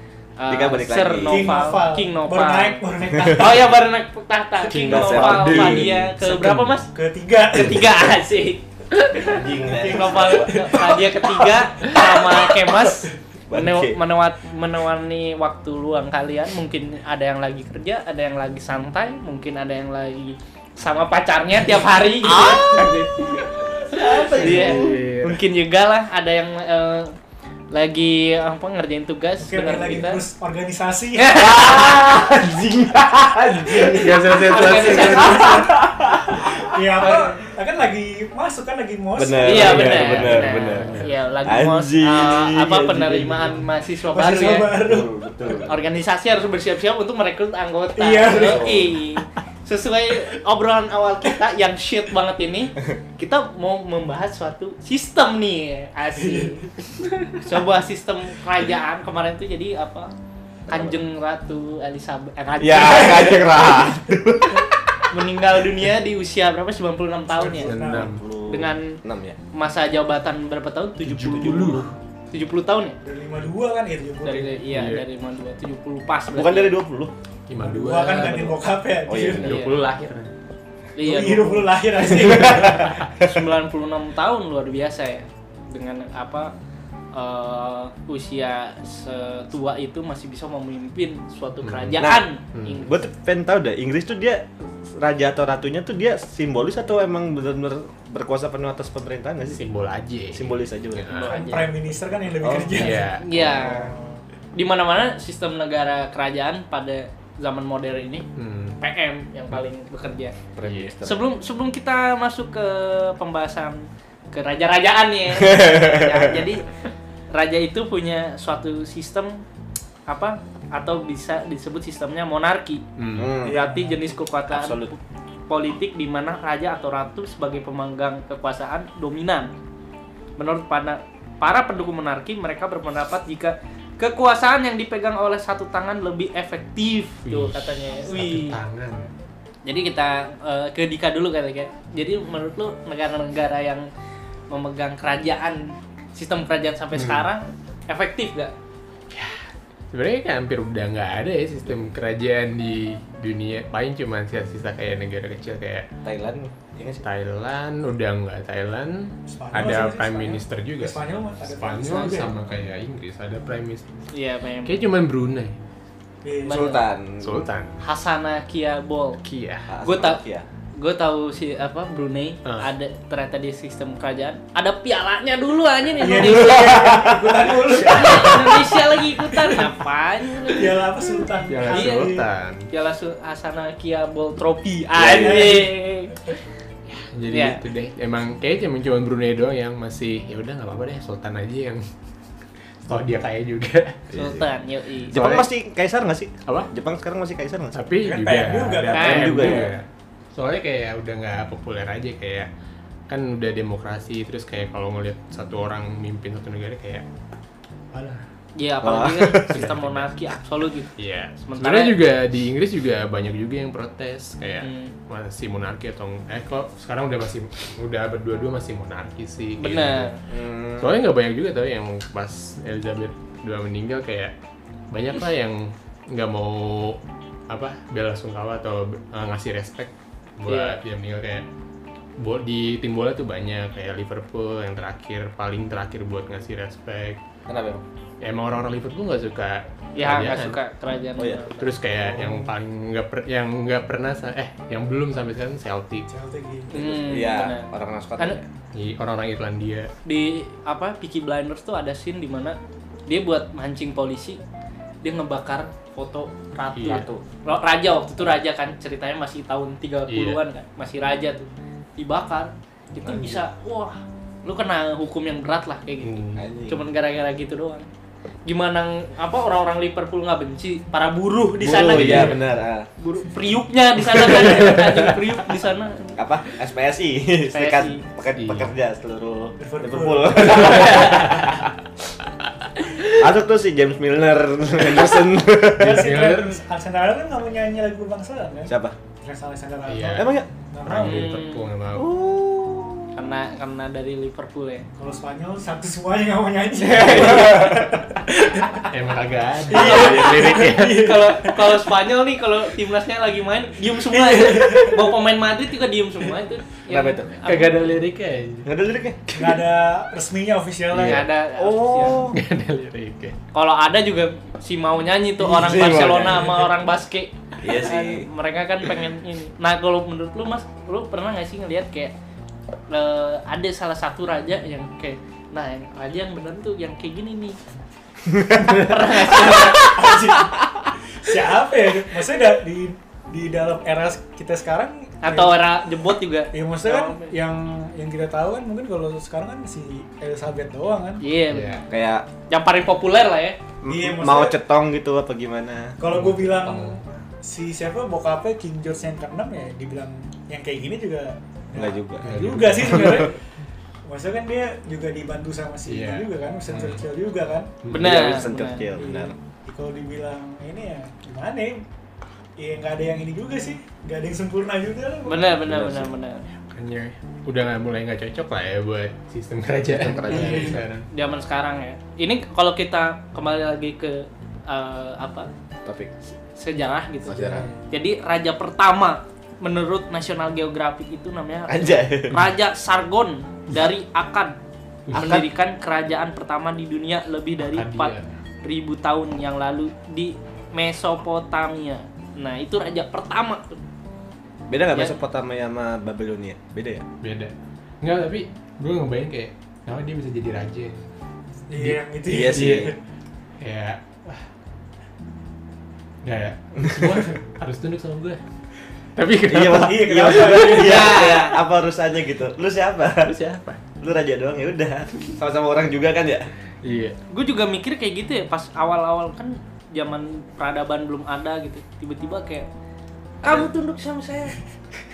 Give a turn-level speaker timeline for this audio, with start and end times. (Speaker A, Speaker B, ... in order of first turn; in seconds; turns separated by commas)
Speaker A: 0.4-6.9, Speaker B: 0.5-1.5, Speaker C: 1.2-3.7, Speaker D: 4.6-6.8, Speaker B: 4.7-5.9, Speaker C: 6.9-8.0, Speaker A: 7.5-27.1, Speaker B: 9.1-10.8, Speaker C: 9.6-11.2, Speaker B: 12.3-12.6, Speaker B: 13.5-14.0, Speaker B: 22.2-22.9, Speaker B: 23.9-24.9, Speaker D: 24.3-25.4, Speaker A: 27.7-30.2, Speaker C: 29.4-31.5, Speaker A: 31.2-32.2, Speaker B: 31.4-34.3, Speaker C: 33.4-35.7, Speaker D: 33.8-35.6, Speaker A: 34.3-35.7, Speaker B: 35.0-36.6, Speaker C: 36.6-40.1, Speaker A: 37.0-37.4, Speaker B: 39.1-43.3, Speaker A: 39.4-44.7, Speaker D: 39.5-41.1, Speaker D: 43.2-43.7, Speaker C: 44.1-45.1, Speaker B: 44.8-45.8, Speaker A: 45.5-56.6, Speaker C: 48.0-48.8, Speaker B: 48.4-48.9, Speaker C: 56.1-56.6, Speaker A: 57.4-60.1, Speaker B: 60.7-60.9, Speaker A: 60.7-63.8, Speaker B: 62.6-64.7, Speaker A: 65.1-67.8, Speaker C: 67.3-68.1, Speaker D: 67.6-68.2, Speaker B: 68.1-69.4, Speaker A: 68.5-69.0, Speaker A: 69.5-73.0, Speaker D: 71.0-71.9, Speaker C: 73.0-74.6, Speaker A: 74.2-76.8, Speaker D: 74.7-75.0, Speaker B: 76.3-77.1, Speaker D: 77.5-78.5, Speaker C: 77.6-79.5, Speaker A: 77.9-78.4, Speaker B: 79.1-79.7, Speaker D: 79.4-80.3, Speaker A: 79.4-79.8, Speaker A: 81.0-81.7, Speaker C: 81.0-83.2, Speaker A: 83.2-86.5, Speaker A: 87.1-92.9, Speaker D: 91.6-92.8, Speaker B: 92.0-99.6, Speaker D: 99.5-101.4, Speaker B: 100.3-101.1, Speaker A: 101.1-101.7, Speaker C: 101.3-103.1, Speaker B: 102.4-103.9, Speaker D: 102.7-103.2, Speaker A: 103.2-103.9, Speaker A: 104.5-108.2, Speaker D: 108.3-108.8, Speaker A: 108.8-110.3, Speaker B: 110.5-111.2, Speaker D: 110.6-110.9, Speaker A: 111.0-116.7, Speaker B: 115.3-116.4, Speaker A: 117.3-119.4, Speaker A: 120.1-122.8, Speaker D: 123.0-123.3, Speaker B: 123.2-123.6, Speaker A: 123.4-125.0, Speaker B: 124.5-124.9, Speaker A: 125.5-129.5, Speaker A: 130.4-138.6, Speaker D: 137.2-139.1, Speaker A: 139.6-143.9, Speaker A: 144.5-148.5, Speaker D: 146.9-147.2, Speaker D: 149.1-149.4, Speaker D: 149.9-155.9, Speaker B: 156.0-157.0, Speaker D: 157.0-163.8, Speaker C: 159.3-162.3, Speaker A: 161.8-162.3, Speaker A: 164.1-164.7, Speaker D: 164.6-165.6, Speaker C: 166.2-166.6, Speaker A: 166.4-166.8, Speaker B: 166.5-167.5, Speaker D: 167.2-167.7, Speaker A: 167.8-169.2, Speaker D: 169.2-169.7, Speaker B: 169.7-170.4, Speaker A: 169.8-170.2, Speaker A: 170.8-176.9, Speaker C: 176.0-178.8, Speaker B: 176.2-178.7, Speaker A: 177.7-180.8, Speaker C: 180.4-182.2, Speaker D: 181.5-182.6, Speaker A: 181.7-182.1, Speaker A: 182.7-186.3, Speaker B: 184.9-185.7, Speaker C: 185.1-185.7, Speaker D: 186.9-191.8, Speaker A: 187.3-187.6, Speaker D: 192.8-194.0, Speaker B: 194.1-194.4, Speaker A: 194.1-195.2, Speaker D: 195.1-195.5, Speaker B: 195.1-197.8, Speaker D: 197.7-202.5, Speaker C: 198.0-199.6, Speaker A: 198.9-199.7, Speaker B: 199.0-199.7, Speaker D: 203.1-207.0, Speaker C: 207.9-208.2, Speaker A: 208.6-212.0, Speaker B: 208.8-209.7, Speaker D: 209.5-210.1, Speaker D: 211.0-220.1, Speaker A: 214.6-214.9, Speaker A: 219.6-220.2, Speaker B: 220.3-220.9, Speaker D: 220.8-224.3, Speaker D: 224.9-231.4, Speaker A: 230.5-230.8, Speaker D: 232.2-237.2, Speaker B: 237.5-237.8, Speaker D: 238.2-240.6, Speaker A: 239.9-241.7, Speaker B: 241.2-241.4, Speaker D: 241.6-246.1, Speaker C: 246.1-247.1, Speaker A: 246.7-247.7, Speaker B: 246.7-248.4, Speaker D: 248.7-249.9, Speaker A: 250.0-252.6, Speaker A: 253.1-254.4, Speaker A: 255.0-267.9, Speaker D: 256.7-257.1, Speaker B: 256.9-257.2, Speaker D: 260.1-260.4, Speaker D: 263.1-263.4, Speaker D: 266.0-266.4, Speaker B: 266.4-266.8, Speaker A: 268.4-272.3, Speaker B: 271.6-272.9, Speaker D: 271.9-272.4, Speaker A: 273.0-276.2, Speaker B: 276.2-281.7, Speaker A: 277.5-278.1, Speaker D: 278.4-278.7, Speaker C: 279.6-280.9, Speaker A: 280.4-281.4, Speaker B: 283.2-286.2, Speaker C: 285.8-288.7, Speaker D: 285.9-286.6, Speaker B: 288.7-289.0, Speaker C: 289.2-291.3, Speaker D: 289.8-290.3, Speaker B: 290.1-290.5, Speaker D: 290.8-292.1, Speaker A: 291.0-291.6, Speaker B: 291.9-293.3, Speaker A: 293.1-294.9, Speaker C: 295.0-298.7, Speaker B: 297.0-297.8, Speaker D: 298.9-301.0, Speaker C: 299.7-301.8, Speaker A: 299.7-300.2, Speaker B: 299.8-300.4, Speaker A: 300.9-307.8, Speaker C: 304.1-305.0, Speaker B: 306.9-307.3, Speaker D: 307.4-308.7, Speaker B: 308.6-309.2, Speaker D: 309.3-309.6, Speaker C: 309.3-311.2, Speaker D: 310.9-311.3, Speaker A: 310.9-312.3, Speaker B: 311.6-312.4, Speaker D: 312.3-313.4, Speaker A: 313.5-322.1, Speaker B: 315.4-316.7, Speaker B: 317.6-318.3, Speaker A: 322.9-327.6, Speaker B: 328.3-328.7, Speaker A: 328.6-330.1, Speaker C: 328.6-330.6, Speaker C: 331.2-335.8, Speaker A: 335.2-337.4, Speaker C: 336.5-341.2, Speaker A: 341.2-341.8, Speaker D: 341.5-341.8, Speaker B: 341.9-342.3, Speaker A: 342.5-343.6, Speaker B: 343.8-346.0, Speaker C: 343.9-344.6, Speaker C: 346.0-353.4, Speaker D: 346.1-347.0, Speaker B: 351.7-352.3, Speaker D: 352.2-353.3, Speaker B: 352.8-353.3, Speaker C: 354.0-357.7, Speaker D: 355.8-357.0, Speaker D: 357.8-358.1, Speaker A: 357.9-358.8, Speaker B: 357.9-359.3, Speaker C: 359.0-361.8, Speaker C: 362.6-365.7, Speaker A: 365.2-366.4, Speaker B: 365.7-366.1, Speaker D: 366.7-371.1, Speaker B: 369.9-370.8, Speaker C: 370.3-370.8, Speaker A: 371.1-375.5, Speaker B: 375.8-376.1, Speaker A: 376.5-384.6, Speaker B: 377.2-377.7, Speaker B: 381.7-382.4, Speaker D: 385.1-385.4, Speaker B: 385.1-385.4, Speaker A: 385.1-393.8, Speaker D: 387.6-388.3, Speaker B: 394.7-397.0, Speaker D: 397.2-401.0, Speaker C: 401.7-402.9, Speaker D: 401.8-402.9, Speaker B: 402.2-402.9, Speaker D: 403.6-404.4, Speaker D: 406.2-408.4, Speaker B: 407.0-407.3, Speaker D: 409.1-410.9, Speaker B: 409.5-413.3, Speaker C: 409.7-411.3, Speaker A: 410.6-411.6, Speaker D: 413.2-413.8, Speaker B: 414.0-416.5, Speaker D: 416.8-417.2, Speaker A: 417.3-422.7, Speaker A: 423.4-424.6